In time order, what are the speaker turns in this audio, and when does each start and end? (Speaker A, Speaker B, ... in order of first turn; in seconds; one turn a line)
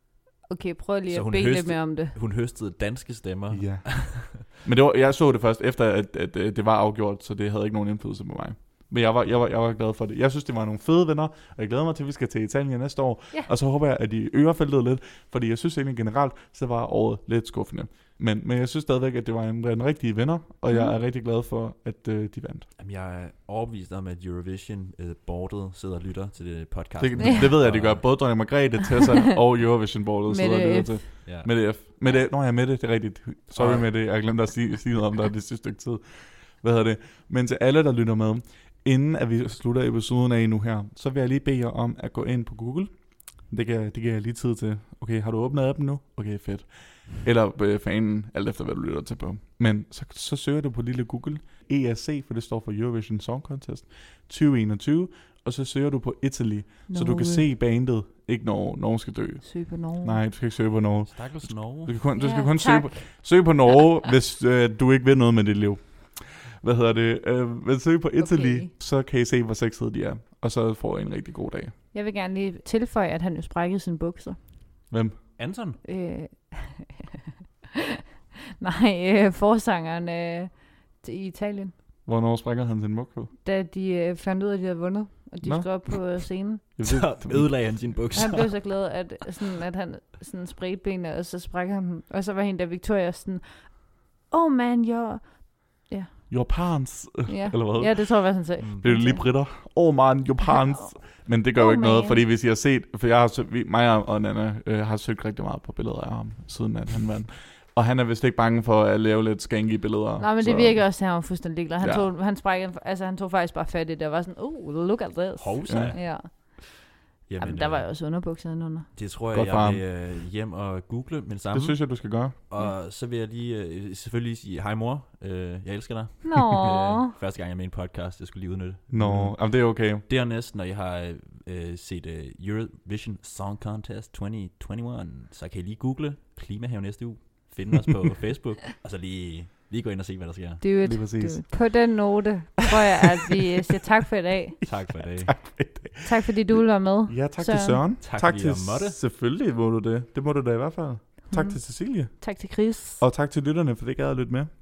Speaker A: 0.5-2.1
Speaker B: 1.1-4.5
Speaker C: 3.5-22.7
Speaker A: 20.7-20.9
Speaker B: 22.8-28.2
Speaker C: 27.0-71.7
Speaker A: 27.2-27.5
Speaker A: 30.3-31.1
Speaker B: 31.2-31.7
Speaker B: 33.5-33.9
Speaker A: 56.9-57.5
Speaker A: 59.4-60.2
Speaker B: 61.1-62.0
Speaker A: 62.2-63.1
Speaker A: 68.2-68.7
Speaker A: 71.9-74.4
Speaker C: 74.9-75.2
Speaker B: 75.4-75.8
Speaker A: 75.8-77.0
Speaker A: 78.6-81.7
Speaker C: 82.1-83.3
Speaker A: 83.4-86.6
Speaker C: 85.4-88.1
Speaker B: 86.8-88.9
Speaker A: 88.1-96.7
Speaker C: 96.3-111.2
Speaker A: 97.3-99.3
Speaker A: 100.5-100.8
Speaker A: 101.5-102.2
Speaker A: 110.2-116.9
Speaker C: 111.8-112.1
Speaker B: 115.4-116.6
Speaker C: 115.7-116.0
Speaker B: 117.3-117.9
Speaker A: 117.4-118.9
Speaker B: 119.0-140.6
Speaker C: 119.3-119.8
Speaker C: 121.5-122.4
Speaker A: 126.2-127.1
Speaker C: 128.9-130.1
Speaker A: 140.6-144.6
Speaker C: 140.8-141.8
Speaker B: 144.7-145.5
Speaker C: 145.0-154.5
Speaker A: 146.0-147.8
Speaker B: 148.0-149.0
Speaker A: 151.3-153.0